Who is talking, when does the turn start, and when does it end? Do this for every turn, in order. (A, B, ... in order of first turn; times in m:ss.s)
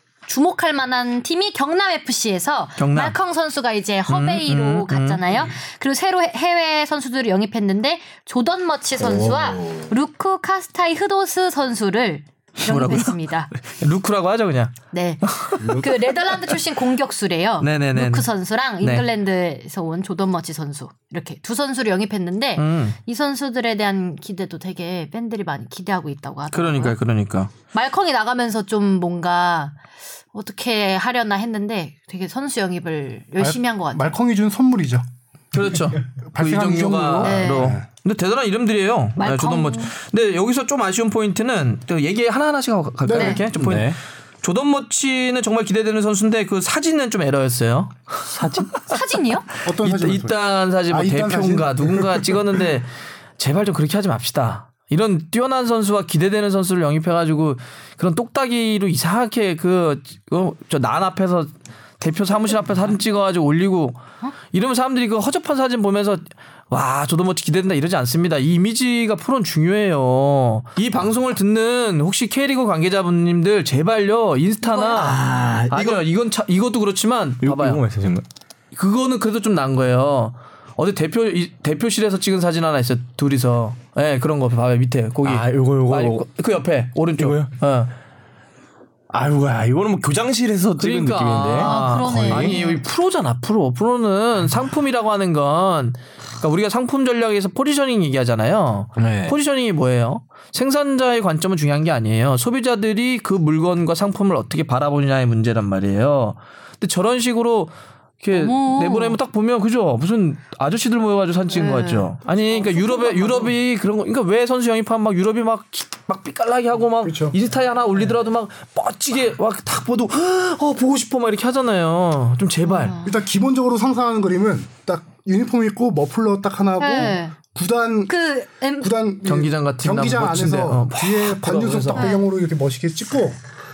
0:00.2-0:13.5 A
0:02.8-0:03.2 B
0:04.1-0:05.5 B
0:09.0-0:09.9 C
0:12.6-0:15.7 B
0:14.9-0:27.0 A
0:15.6-0:15.9 C
0:17.6-0:18.3 B
0:18.8-0:19.0 B
0:22.6-0:23.0 B
0:26.5-0:27.5 B
0:27.7-0:29.8 A
0:30.3-0:34.1 A
0:33.4-0:35.0 D
0:35.5-0:48.9 B
0:35.7-0:37.8 D
0:37.2-0:37.7 A
0:39.2-0:39.9 A
0:43.0-0:43.4 D
0:43.1-0:43.4 A
0:43.5-0:44.0 C
0:48.3-0:48.7 C
0:48.9-0:49.5 A
0:49.6-0:52.6 D
0:49.7-1:17.8 B
1:14.6-1:15.3 A
1:14.9-1:16.0 C
1:17.4-1:18.2 C
1:18.7-1:27.9 B
1:25.2-1:26.2 C
1:27.2-1:27.5 C
1:29.1-1:32.6 C
1:30.8-2:02.9 B
1:31.5-1:32.8 A
1:39.0-1:39.4 C
1:48.3-1:49.2 A
1:51.5-1:53.5 A
1:57.0-1:57.4 D
2:02.6-2:03.1 A
2:03.0-2:08.1 D
2:06.8-2:07.3 A
2:08.1-2:08.9 A
2:08.8-2:13.4 D
2:09.2-2:12.1 B
2:11.9-2:12.2 A